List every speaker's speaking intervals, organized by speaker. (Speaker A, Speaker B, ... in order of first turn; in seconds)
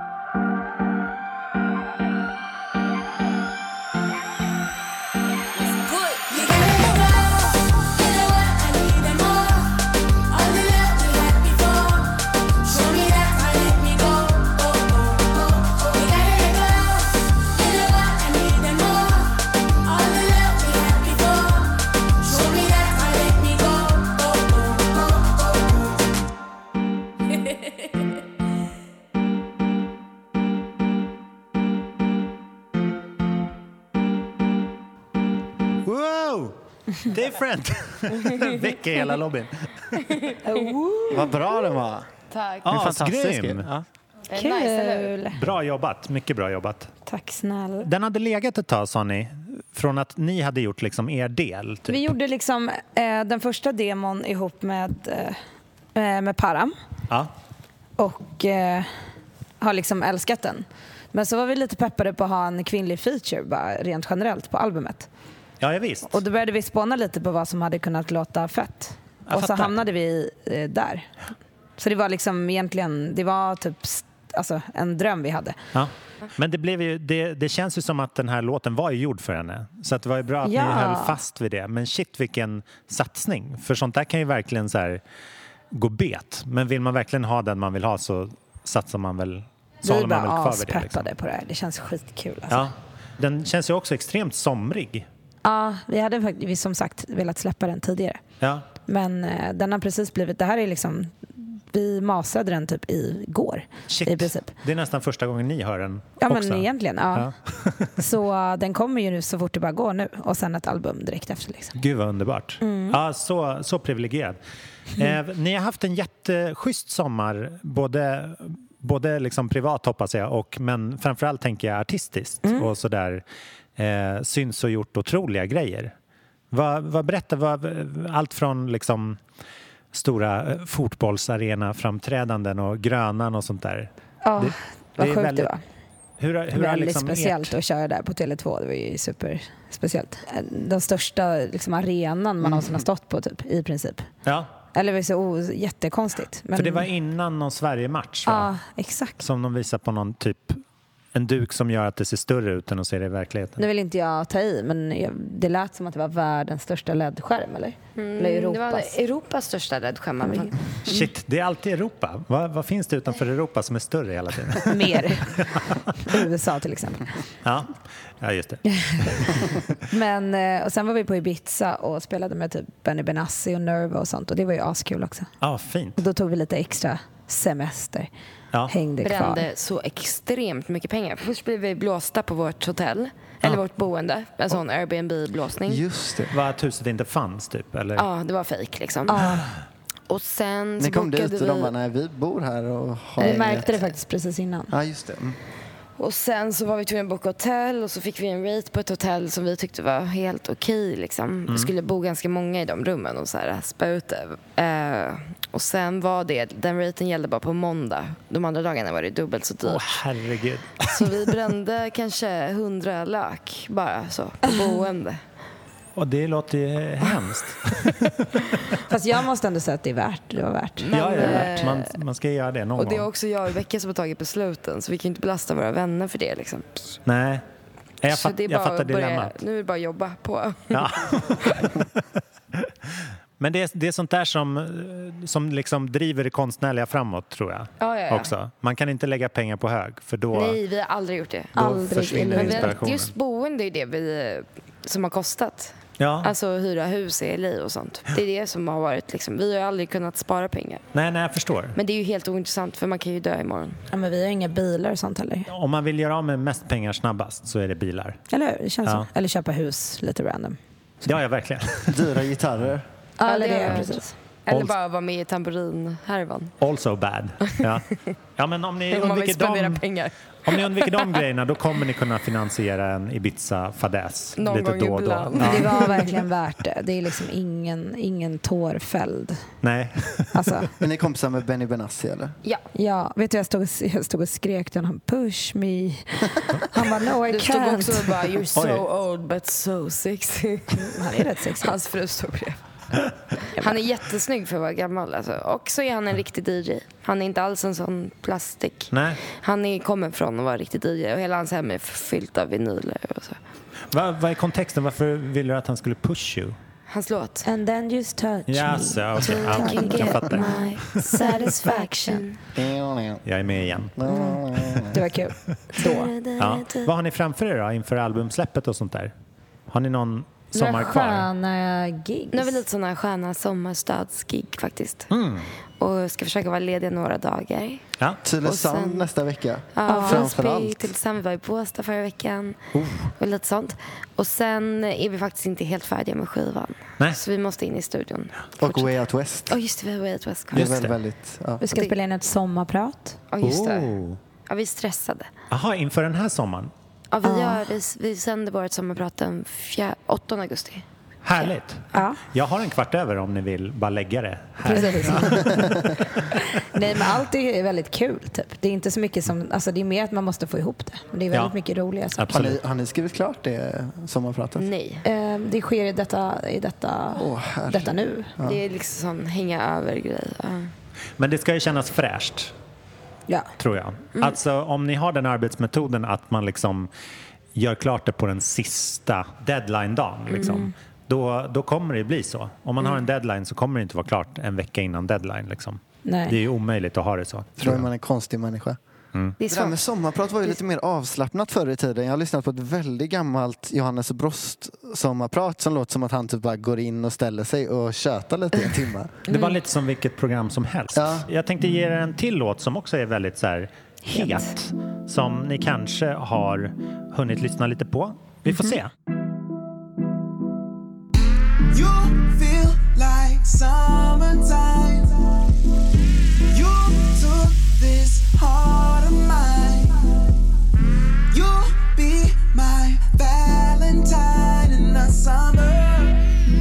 Speaker A: 5.6-25.9, 27.3-27.9
Speaker B: 35.8-40.2, 42.6-43.7, 45.3-46.9, 47.8-52.0, 65.6-66.2, 69.3-69.8, 75.7-85.0, 85.7-91.1, 92.5-95.1, 98.4-98.7, 103.9-107.9, 111.8-114.4, 115.0-123.2, 123.8-125.9, 126.5-129.2, 129.9-135.5, 136.2-137.5, 144.2-144.5, 146.5-148.5, 149.2-150.6, 151.1-153.6, 160.8-165.9, 167.4-169.6, 175.4-176.0, 186.3-188.0, 209.6-211.3, 215.9-218.8, 220.9-223.1, 227.1-227.4, 228.0-229.3, 230.7-232.0, 232.5-240.6, 241.6-243.1, 246.0-246.3, 250.9-251.7, 255.5-258.2, 261.0-262.0, 266.6-269.8, 270.4-275.7, 279.6-280.6, 288.6-288.8, 298.9-299.2, 303.9-306.6, 308.5-310.6, 313.2-313.9, 316.4-319.1, 319.7-321.3, 325.1-325.5, 332.7-333.1, 340.5-340.9, 343.4-344.2, 345.5-346.7, 351.2-355.4, 362.2-362.6, 371.2-372.5, 373.6-376.9, 377.5-387.9, 399.3-408.9
Speaker C: 40.4-41.3, 44.3-45.4, 47.1-47.9, 51.9-55.4, 55.9-56.7, 58.0-58.9, 59.6-65.1, 66.1-71.1, 71.8-75.6, 80.4-81.2, 89.8-92.7, 95.4-98.2, 98.8-104.5, 106.2-107.3, 108.0-111.7, 112.6-113.0, 134.2-135.6, 136.5-144.1, 144.7-146.9, 148.2-149.2, 153.6-158.9, 160.2-160.5, 164.6-167.1, 168.7-175.3, 176.0-178.1, 178.7-179.4, 189.1-189.4, 193.2-194.7, 218.9-221.7, 241.6-242.8, 253.9-255.5, 258.3-260.6, 263.2-264.1, 275.4-279.4, 280.3-280.7, 282.7-288.1, 290.7-291.7, 307.4-312.2, 314.9-316.1, 320.5-322.6, 329.9-330.3, 341.6-343.2, 347.2-347.6, 351.9-352.2, 354.6-355.6, 356.3-362.4, 365.0-368.3, 380.4-380.7, 386.0-386.4, 408.5-408.7
Speaker D: 41.1-42.1, 42.6-43.8, 185.7-186.4, 190.8-193.8, 194.7-195.4, 261.9-262.8, 280.8-282.3, 312.5-313.2, 313.9-315.0, 328.2-330.9, 338.6-339.6, 340.5-341.6, 355.5-355.8, 362.3-364.7, 367.1-368.6, 387.6-388.8, 389.5-399.1, 400.9-401.3
Speaker E: 42.3-42.6, 44.3-45.2, 158.0-160.6, 179.0-185.8, 187.9-189.2, 190.1-191.7, 196.0-210.0, 210.8-215.2, 220.8-221.9, 222.8-226.9, 228.1-231.7, 237.8-238.3, 240.3-241.6, 242.3-250.8, 251.7-253.8, 263.2-266.5, 268.9-271.2, 274.4-276.2, 287.3-292.6, 293.4-303.4, 306.9-307.5, 309.2-312.4, 314.1-314.4, 315.8-316.9, 322.3-325.1, 325.8-327.8, 328.4-329.1, 329.7-332.6, 333.1-338.9, 339.5-340.7, 341.7-341.9, 343.3-343.9, 344.5-345.3, 347.1-350.8, 354.7-355.3, 364.6-365.0, 368.4-370.7, 380.3-380.6, 389.4-389.8
Speaker F: 411.7-415.1, 416.5-420.1, 421.3-426.2